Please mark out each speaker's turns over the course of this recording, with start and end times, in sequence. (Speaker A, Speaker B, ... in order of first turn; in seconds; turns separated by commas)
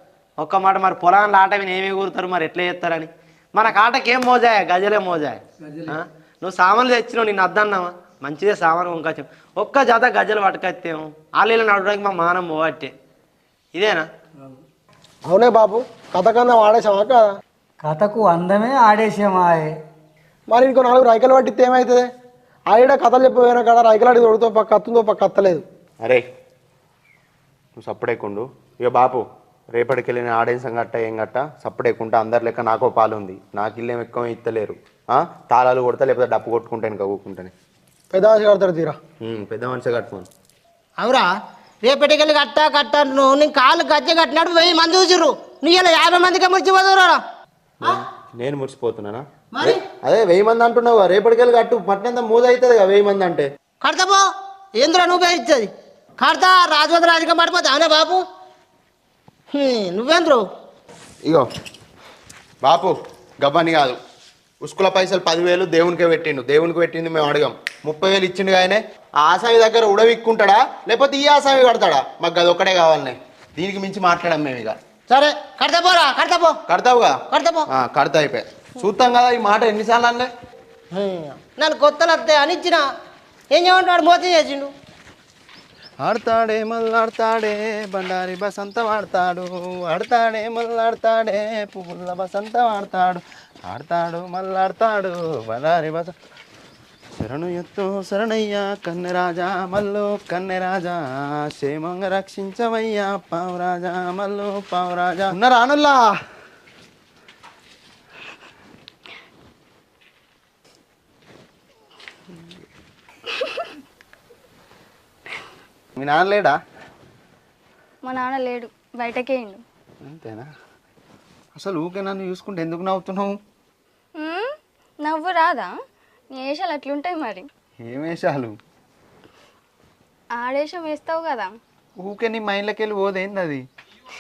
Speaker A: 0.4-12.9, Speaker A: 13.7-14.1, Speaker B: 15.2-17.3, Speaker C: 17.8-19.8, Speaker B: 20.5-22.1, Speaker B: 22.7-25.6, Speaker D: 27.8-37.5, Speaker B: 38.1-39.0, Speaker D: 39.2-40.3, Speaker E: 41.0-41.3, Speaker E: 41.8-47.2, Speaker D: 47.8-53.5, Speaker E: 49.5-49.8, Speaker E: 53.8-54.3, Speaker E: 54.8-58.2, Speaker E: 59.5-60.4, Speaker D: 62.6-64.0, Speaker D: 64.6-74.8, Speaker E: 75.1-76.6, Speaker D: 76.7-80.3, Speaker E: 77.3-77.7, Speaker E: 80.9-82.8, Speaker E: 83.5-84.7, Speaker D: 86.0-96.1, Speaker D: 97.2-106.1, Speaker F: 113.4-113.7, Speaker D: 116.0-116.6, Speaker F: 118.0-119.6, Speaker D: 120.0-120.5, Speaker D: 121.6-123.3, Speaker F: 124.2-124.5, Speaker F: 125.0-125.7, Speaker F: 126.3-127.5, Speaker D: 127.8-128.5, Speaker F: 130.4-131.5, Speaker D: 132.0-133.6